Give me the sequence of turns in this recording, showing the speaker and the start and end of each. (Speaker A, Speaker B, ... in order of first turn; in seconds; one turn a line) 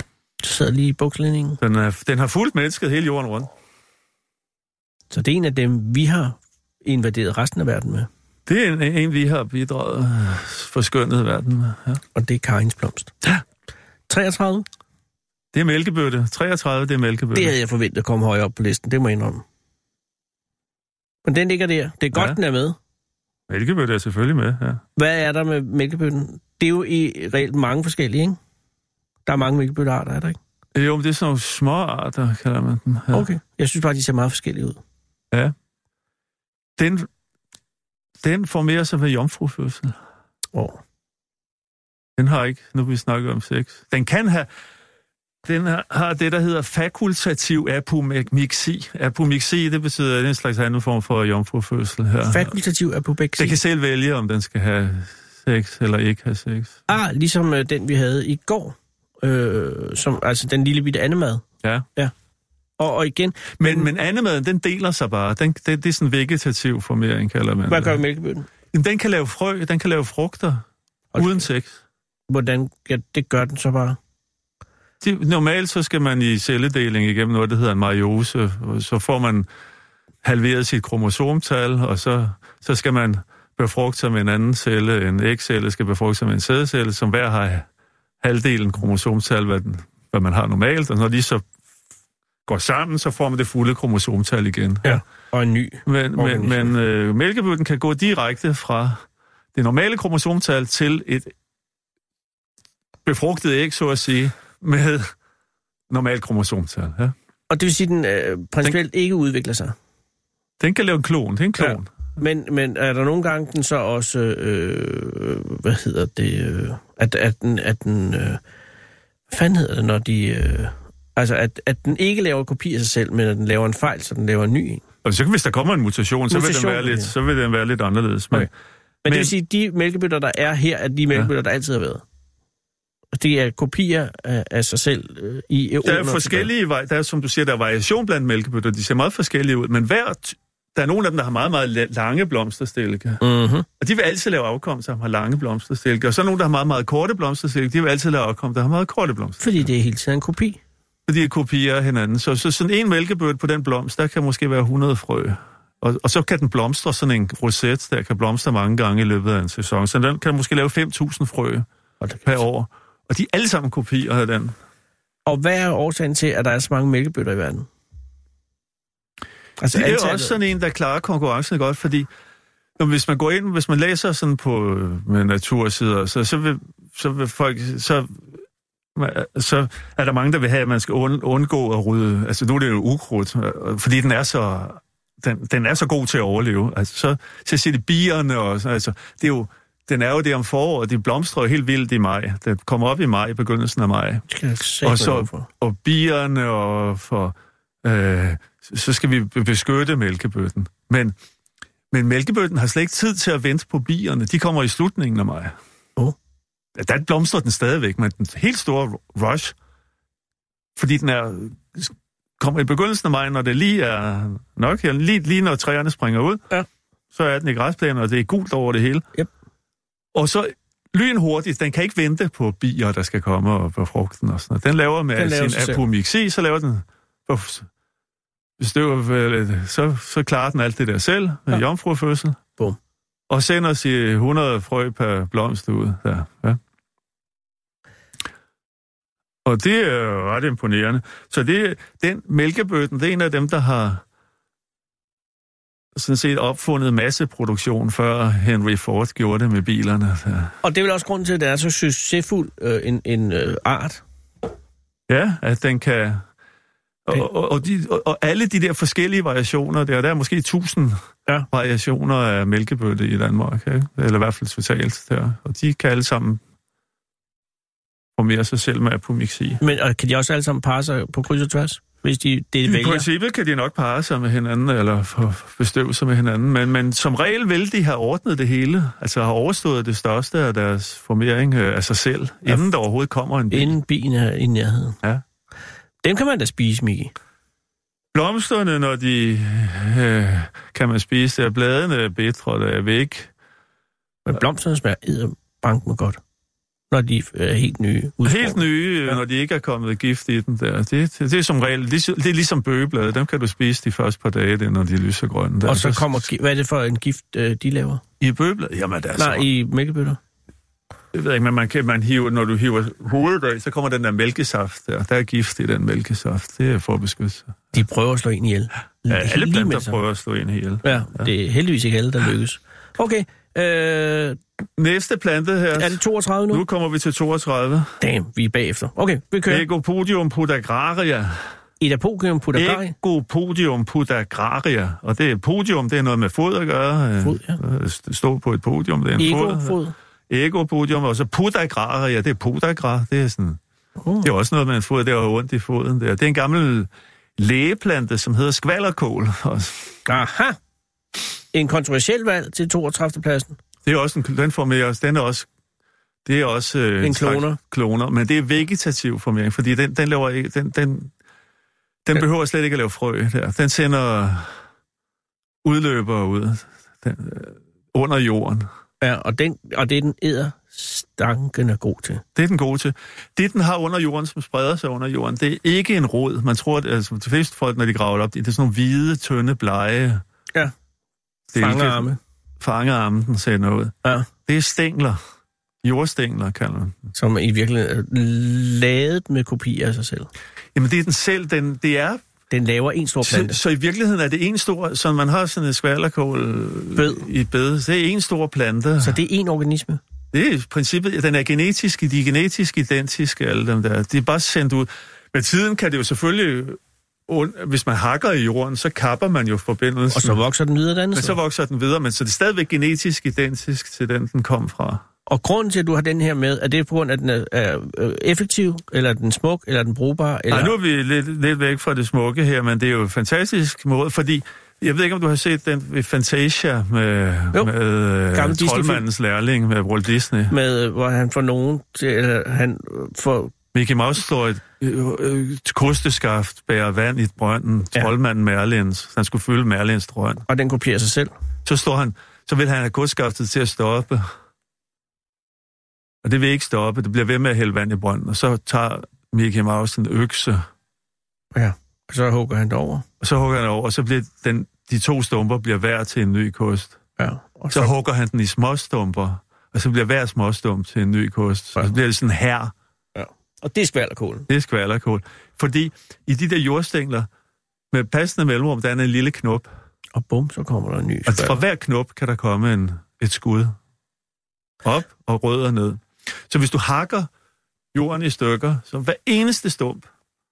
Speaker A: 0.4-1.6
Speaker B: 1.6-3.5
Speaker A: 5.1-8.1
Speaker B: 8.5-12.0
Speaker A: 12.1-13.1
Speaker A: 14.1-14.7
Speaker B: 15.5-17.6
Speaker A: 17.3-19.4
Speaker A: 21.2-22.8
Speaker B: 23.5-24.8
Speaker A: 25.0-28.4
Speaker A: 29.3-30.4
Speaker B: 30.8-33.3
Speaker A: 33.1-34.8
Speaker B: 36.8-37.1
Speaker B: 38.2-40.0
Speaker A: 40.5-40.8
Speaker B: 42.2-44.5
Speaker B: 45.5-52.5
Speaker A: 52.3-53.6
Speaker B: 53.4-56.8
Speaker A: 56.9-61.4
Speaker A: 62.8-63.9
Speaker B: 63.6-68.0
Speaker A: 67.7-68.5
Speaker B: 68.7-70.6
Speaker A: 71.1-71.4
Speaker B: 71.2-71.8
Speaker A: 72.3-74.0
Speaker B: 75.0-79.5
Speaker B: 80.2-87.7
Speaker B: 88.2-91.4
Speaker B: 92.5-95.0
Speaker A: 94.8-96.7
Speaker B: 95.9-99.0
Speaker B: 99.5-101.3
Speaker B: 103.0-105.1
Speaker B: 105.9-107.1
Speaker A: 107.5-109.8
Speaker B: 110.6-111.9
Speaker A: 111.6-118.4
Speaker A: 119.3-124.8
Speaker B: 125.0-128.5
Speaker A: 126.3-127.1
Speaker A: 129.0-132.0
Speaker B: 129.1-129.3
Speaker A: 133.1-136.5
Speaker B: 135.8-143.2
Speaker A: 143.2-143.7
Speaker B: 143.8-149.7
Speaker A: 149.4-150.6
Speaker B: 151.1-161.7
Speaker A: 162.0-162.3
Speaker B: 162.2-164.6
Speaker A: 165.2-167.7
Speaker A: 169.6-170.3
Speaker B: 169.7-172.1
Speaker B: 172.8-178.2
Speaker B: 179.0-194.2
Speaker A: 194.3-195.5
Speaker B: 194.8-201.1
Speaker B: 201.9-205.5
Speaker B: 206.8-209.5
Speaker B: 210.8-216.4
Speaker B: 217.1-219.1
Speaker B: 220.1-227.7
Speaker A: 225.2-225.8
Speaker B: 228.6-232.4
Speaker B: 233.3-236.6
Speaker B: 239.4-244.0
Speaker B: 245.9-250.6
Speaker A: 250.6-254.0
Speaker B: 255.1-256.2
Speaker B: 257.1-261.0
Speaker B: 261.5-266.4
Speaker B: 268.2-269.6
Speaker A: 269.6-273.1
Speaker B: 272.6-283.7
Speaker A: 283.5-285.0
Speaker A: 286.0-287.1
Speaker B: 288.1-293.3
Speaker A: 294.2-296.2
Speaker A: 296.9-299.2
Speaker B: 298.2-306.3
Speaker A: 305.6-308.0
Speaker B: 308.2-309.5
Speaker A: 309.2-310.2
Speaker B: 311.1-317.7
Speaker A: 317.7-320.0
Speaker B: 319.1-321.3
Speaker A: 320.8-324.4
Speaker B: 324.8-328.0
Speaker A: 325.8-326.6
Speaker A: 328.0-329.6
Speaker B: 329.5-331.4
Speaker A: 331.8-332.9
Speaker B: 332.6-339.8
Speaker A: 337.2-337.6
Speaker A: 339.2-339.9
Speaker B: 340.3-343.6
Speaker A: 344.0-344.3
Speaker B: 344.2-350.0
Speaker A: 350.1-350.6
Speaker A: 351.5-353.6
Speaker B: 353.9-355.5
Speaker B: 356.2-361.1
Speaker A: 357.0-357.6
Speaker B: 362.1-364.5
Speaker B: 365.6-368.7
Speaker A: 369.0-372.2
Speaker B: 372.4-380.2
Speaker B: 381.5-385.2
Speaker A: 381.6-382.2
Speaker B: 385.8-387.1
Speaker A: 387.1-390.3
Speaker B: 390.8-392.2
Speaker A: 392.5-393.6
Speaker B: 393.2-399.2
Speaker A: 397.0-397.2
Speaker A: 399.0-400.0
Speaker B: 400.3-410.4
Speaker A: 410.1-411.4
Speaker B: 411.1-415.0
Speaker A: 415.3-420.8
Speaker B: 420.5-430.5
Speaker A: 428.3-429.0
Speaker A: 430.5-433.5
Speaker B: 433.7-440.4
Speaker A: 440.5-441.3
Speaker B: 441.6-444.3
Speaker B: 446.2-450.6
Speaker A: 451.5-453.1
Speaker B: 453.2-457.0
Speaker A: 457.2-457.9
Speaker B: 457.7-462.7
Speaker A: 463.1-464.5
Speaker B: 464.5-467.3
Speaker B: 467.9-469.7
Speaker A: 470.1-471.6
Speaker B: 471.3-473.8
Speaker B: 474.8-477.3
Speaker B: 477.9-480.1